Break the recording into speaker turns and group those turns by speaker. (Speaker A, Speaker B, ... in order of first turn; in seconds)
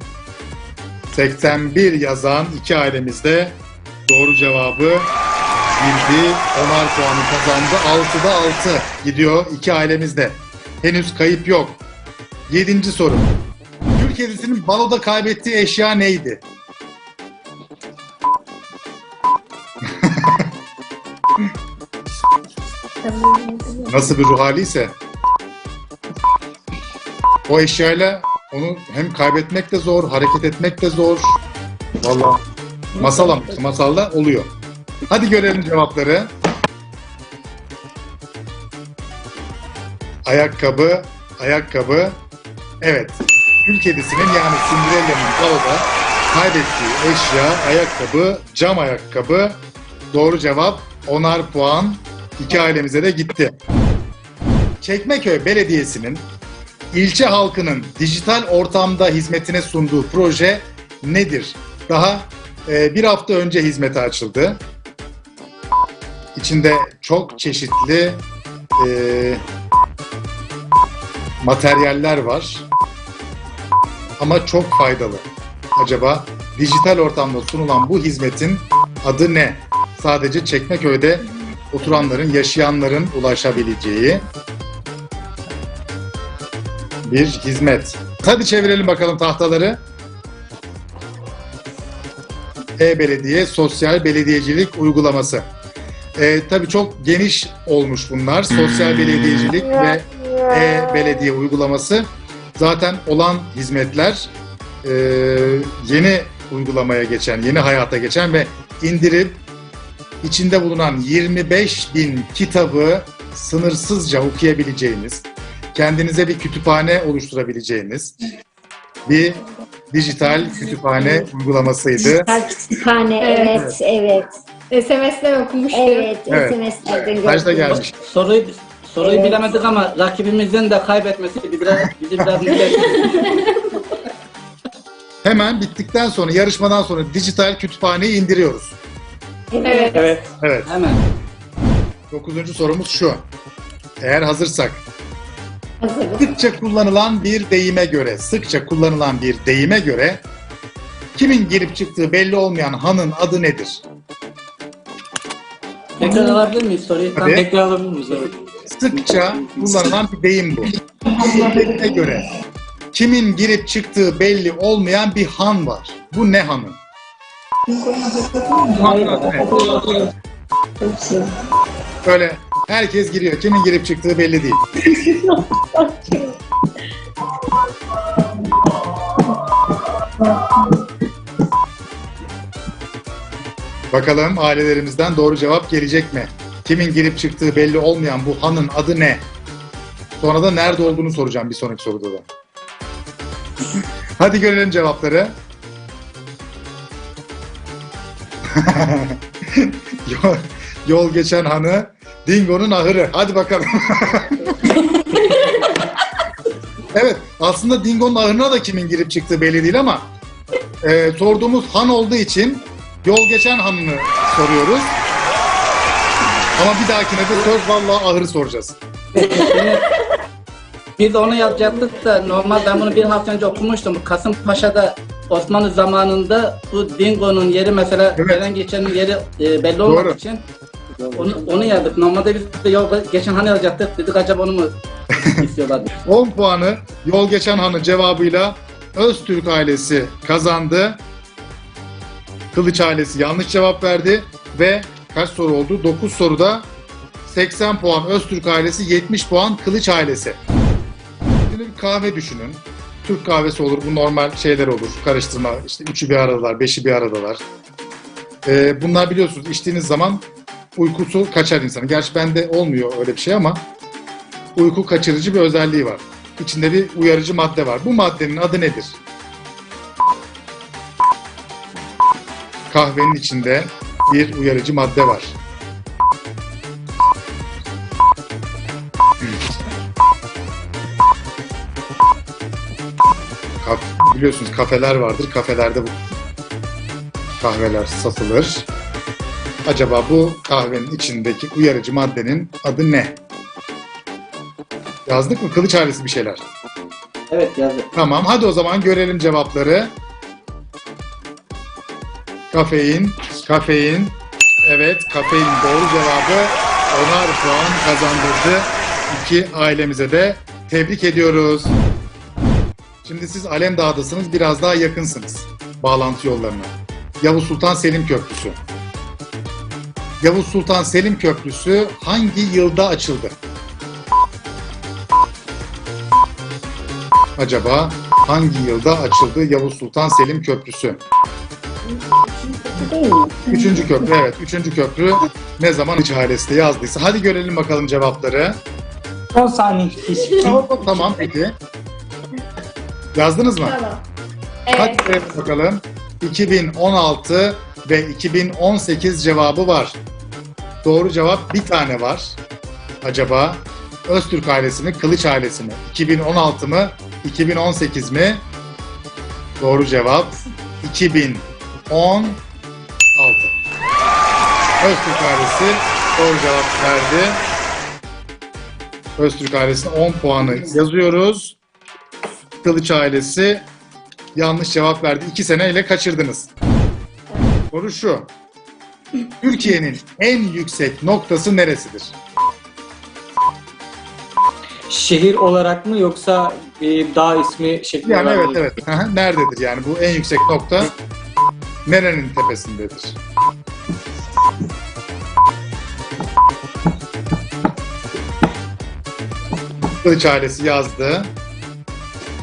Speaker A: 1.1-5.2, 5.8-11.8, 12.5-13.3, 13.9-16.4, 19.8-20.5, 23.9-24.9, 27.5-31.4, 32.0-32.4, 32.9-34.5, 35.1-36.3, 40.2-42.2, 42.8-53.6, 54.8-56.3, 56.9-64.6, 66.3-68.2, 68.8-69.4, 71.4-72.7, 74.2-84.2, 87.0-89.8, 92.8-95.5, 96.2-104.3, 104.8-109.4, 110.2-118.2, 119.0-122.3, 126.3-126.6, 127.2-127.9, 135.2-138.8, 140.4-140.7, 142.1-143.3, 144.0-144.8, 146.2-150.2, 151.1-153.8, 157.2-157.4, 158.7-160.7, 161.4-162.3, 162.9-166.8, 168.7-169.5, 172.0-174.6, 183.9-189.3, 190.2-192.2, 193.8-195.4, 198.4-204.4, 206.9-210.1, 210.8-215.0, 216.6-218.8, 228.2-228.4, 229.8-230.2, 235.2-235.4, 236.0-241.0, 242.5-246.7, 247.2-250.4, 251.5-257.4, 258.4-263.6, 264.6-269.0, 272.7-275.4, 283.6-286.0, 287.4-288.7, 289.6-293.2, 295.1-296.4, 297.9-299.9, 302.5-311.8, 313.0-318.6, 320.2-323.4, 327.4-331.0, 333.5-338.6, 340.4-341.6, 343.1-343.8, 344.7-350.0, 350.8-352.4, 353.0-358.4, 359.6-362.4, 363.1-363.5, 364.8-367.4, 369.1-371.6, 372.6-373.7, 374.4-376.5, 377.7-378.3, 379.4-382.1, 388.0-390.9, 391.9-393.2, 400.0-401.3
Speaker B: 23.0-23.9, 123.2-123.6, 124.7-126.1, 139.6-139.9, 161.2-161.6, 167.8-168.8, 169.5-169.9, 170.8-171.2, 174.9-176.3, 180.2-180.7, 344.7-345.0
Speaker C: 122.0-124.3, 125.7-127.8, 139.5-140.1, 145.8-146.2
Speaker D: 128.0-133.3, 140.7-141.0, 156.0-157.4, 219.1-219.9, 221.0-230.4, 231.1-234.7, 235.3-235.9, 297.3-297.9
Speaker E: 139.9-140.2, 157.2-158.3, 168.9-169.6, 231.0-231.8, 339.3-341.1, 384.9-388.7